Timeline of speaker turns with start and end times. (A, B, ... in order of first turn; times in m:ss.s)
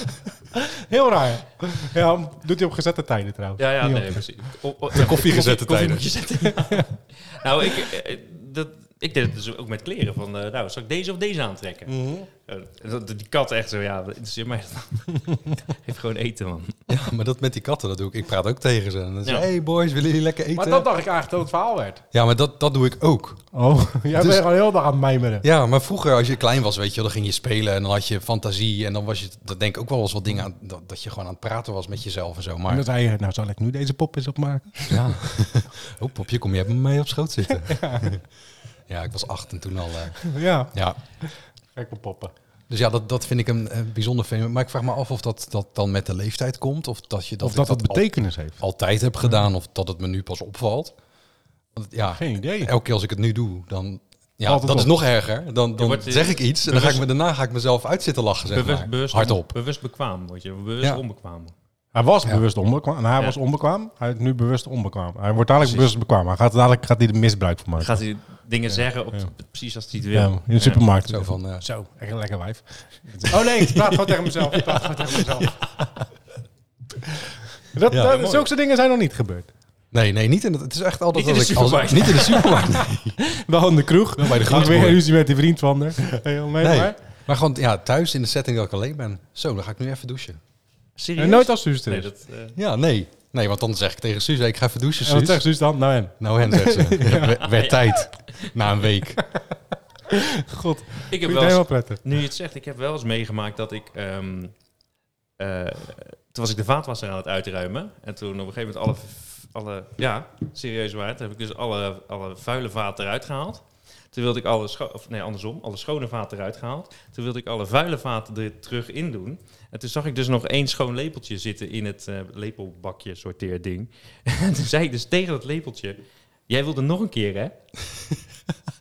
0:00.5-0:04.2 A
0:03.6-0:11.9 B
0:04.9-0:06.1 C
0:06.5-0:06.8 A
0:11.9-0:12.3 A
0:12.4-0:16.8 B
0:16.9-0:20.9 C
0:20.5-0:22.0 A
0:22.1-0:23.4 C
0:23.5-0:25.4 A
0:24.2-0:24.4 C
0:25.4-0:32.8 C
0:32.7-0:35.4 A
0:34.9-0:38.2 C
0:37.5-0:38.2 A
0:38.9-0:41.0 C
0:40.2-0:42.3 A
0:42.7-0:50.9 C
0:47.4-0:48.6 A
0:51.8-0:59.5 C
0:52.2-0:52.7 A
0:54.4-0:54.9 A
0:55.8-0:57.0 B
0:58.5-1:01.5 B
1:01.9-1:08.0 A
1:05.6-1:05.9 B
1:07.8-1:10.8 B
1:08.7-1:09.2 A
1:10.1-1:15.6 A
1:11.1-1:11.6 C
1:13.6-1:14.0 C
1:15.4-1:15.9 C
1:17.1-1:19.5 A
1:18.0-1:18.5 B
1:19.9-1:23.2 C
1:21.1-1:22.8 B
1:23.2-1:27.0 A
1:24.2-1:25.0 C
1:26.6-1:30.4 C
1:31.0-1:32.6 B
1:31.2-1:32.1 A
1:32.6-1:35.4 C
1:35.0-1:37.3 A
1:36.2-1:39.2 C
1:37.1-1:38.5 B
1:40.1-1:42.0 A
1:41.1-1:44.5 B
1:45.4-2:07.5 B